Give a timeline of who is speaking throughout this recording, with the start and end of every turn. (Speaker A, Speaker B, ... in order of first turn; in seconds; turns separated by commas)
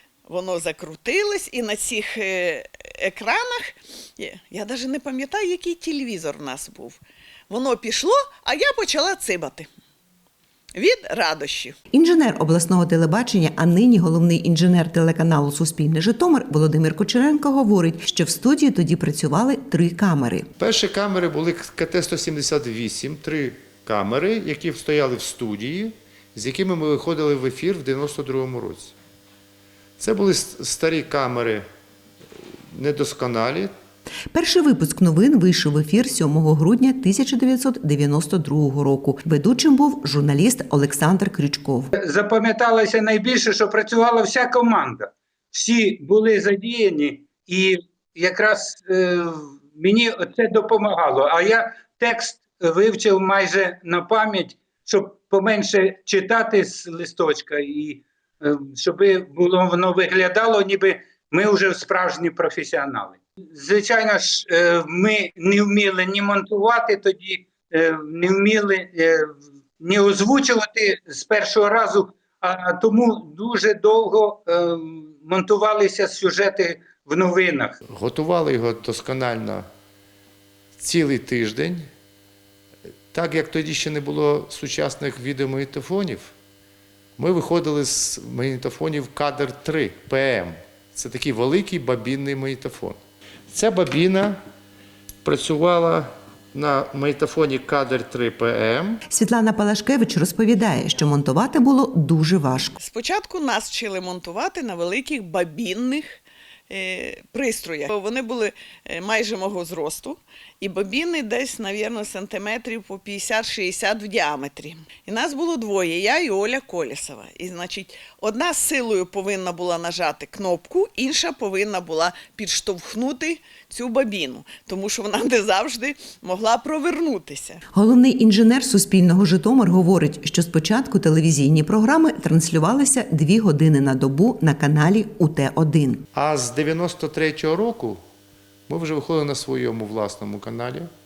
Speaker A: 0.2-9.7, Speaker A: 10.7-11.8, Speaker B: 11.9-20.5, Speaker C: 20.6-28.9, Speaker C: 30.0-31.6, Speaker C: 32.7-33.7, Speaker B: 34.3-41.9, Speaker D: 42.0-77.7, Speaker C: 77.9-79.7, Speaker C: 80.8-81.9, Speaker C: 83.1-86.3, Speaker C: 87.2-94.4, Speaker C: 95.2-99.0, Speaker B: 99.1-102.8, Speaker A: 102.8-127.6, Speaker B: 127.7-136.0, Speaker C: 136.1-138.0, Speaker C: 138.7-140.9